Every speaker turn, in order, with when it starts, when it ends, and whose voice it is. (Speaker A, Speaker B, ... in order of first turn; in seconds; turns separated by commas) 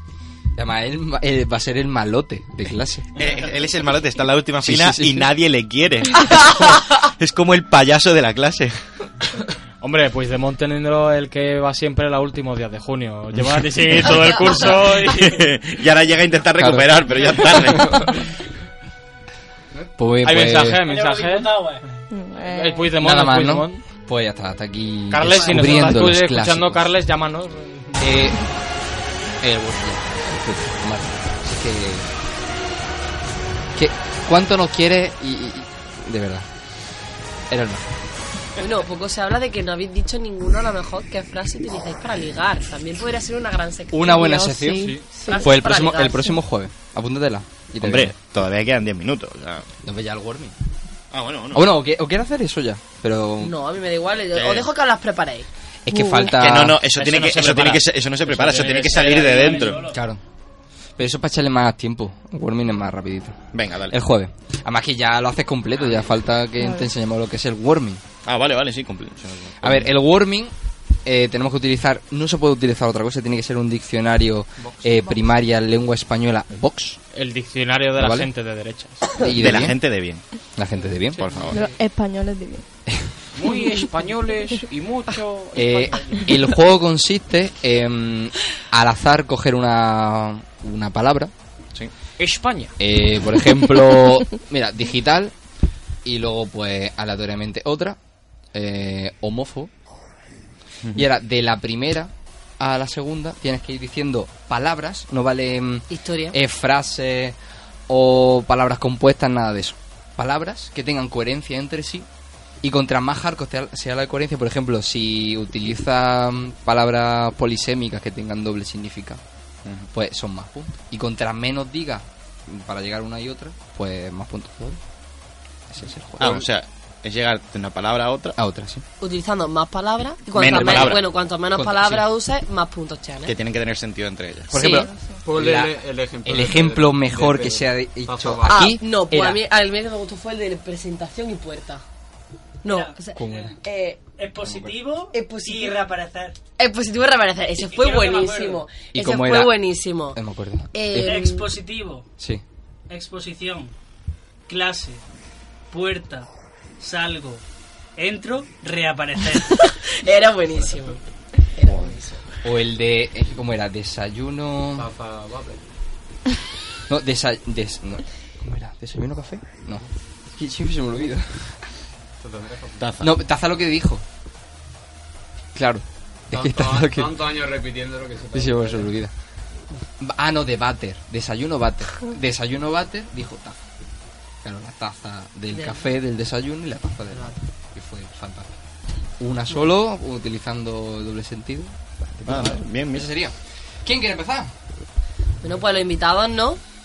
Speaker A: 0.6-3.2, Speaker B: 3.1-8.8, Speaker A: 4.6-5.3, Speaker C: 9.8-15.4, Speaker B: 14.9-18.2, Speaker A: 16.6-18.1, Speaker A: 19.7-20.8, Speaker C: 20.2-21.6, Speaker D: 20.9-21.8, Speaker E: 22.1-22.9, Speaker C: 22.4-23.8, Speaker A: 23.0-26.8, Speaker C: 25.1-28.0, Speaker A: 28.0-28.5, Speaker A: 29.4-32.1, Speaker A: 33.7-36.5, Speaker A: 37.5-37.9, Speaker F: 38.6-44.5, Speaker A: 43.9-48.1, Speaker E: 44.0-45.5, Speaker F: 45.1-46.3, Speaker B: 47.8-49.6, Speaker A: 49.8-50.5, Speaker B: 51.1-51.7, Speaker A: 51.5-53.5, Speaker F: 53.4-55.5, Speaker B: 54.3-54.7, Speaker A: 55.9-56.8, Speaker E: 55.9-56.4, Speaker B: 56.4-59.9, Speaker C: 56.9-59.7, Speaker D: 58.6-60.0, Speaker A: 59.9-60.2, Speaker A: 61.0-68.0, Speaker B: 63.5-64.0, Speaker E: 66.6-66.9, Speaker B: 68.2-69.9, Speaker A: 69.6-70.5, Speaker A: 71.0-77.0, Speaker C: 77.1-79.1, Speaker A: 78.0-78.3, Speaker A: 79.2-79.8, Speaker B: 79.2-80.2, Speaker A: 80.5-81.4, Speaker C: 81.1-81.7, Speaker B: 81.2-81.6, Speaker E: 81.5-82.7, Speaker C: 83.3-86.3, Speaker E: 83.5-83.9, Speaker A: 85.5-91.3, Speaker C: 92.2-92.7, Speaker A: 92.8-95.3, Speaker A: 96.0-98.0, Speaker A: 98.5-99.7, Speaker A: 100.9-107.3, Speaker F: 105.9-106.3, Speaker A: 107.9-112.1, Speaker A: 112.6-119.2, Speaker A: 119.9-124.8, Speaker A: 125.7-126.4, Speaker B: 126.2-128.4, Speaker A: 128.4-128.8, Speaker F: 129.0-133.3, Speaker B: 130.3-131.1, Speaker A: 130.5-132.1, Speaker B: 133.2-134.6, Speaker A: 134.5-139.4, Speaker F: 134.5-134.9, Speaker E: 134.6-135.2, Speaker G: 135.2-138.7, Speaker F: 138.5-141.8, Speaker F: 142.6-144.0, Speaker D: 142.6-143.6, Speaker A: 143.1-143.6, Speaker D: 144.1-146.3, Speaker A: 144.4-144.7, Speaker F: 145.1-145.8, Speaker F: 146.6-150.2, Speaker D: 147.6-148.6, Speaker A: 148.9-149.6, Speaker A: 150.1-151.2, Speaker F: 150.7-151.5, Speaker D: 150.9-152.1, Speaker D: 152.9-153.7, Speaker D: 154.5-155.0, Speaker D: 155.7-156.3, Speaker D: 156.8-157.4, Speaker D: 158.0-159.6, Speaker F: 160.0-162.2, Speaker A: 162.4-164.9, Speaker G: 164.8-165.6, Speaker A: 166.9-171.6, Speaker G: 172.2-172.9, Speaker B: 172.8-173.1, Speaker A: 173.0-174.0, Speaker A: 175.5-177.3, Speaker G: 176.3-178.9, Speaker A: 178.3-179.1, Speaker A: 180.0-183.6, Speaker A: 184.4-188.5, Speaker F: 185.5-185.8, Speaker F: 187.1-187.4, Speaker A: 189.2-194.5, Speaker B: 192.2-193.1, Speaker F: 195.4-196.6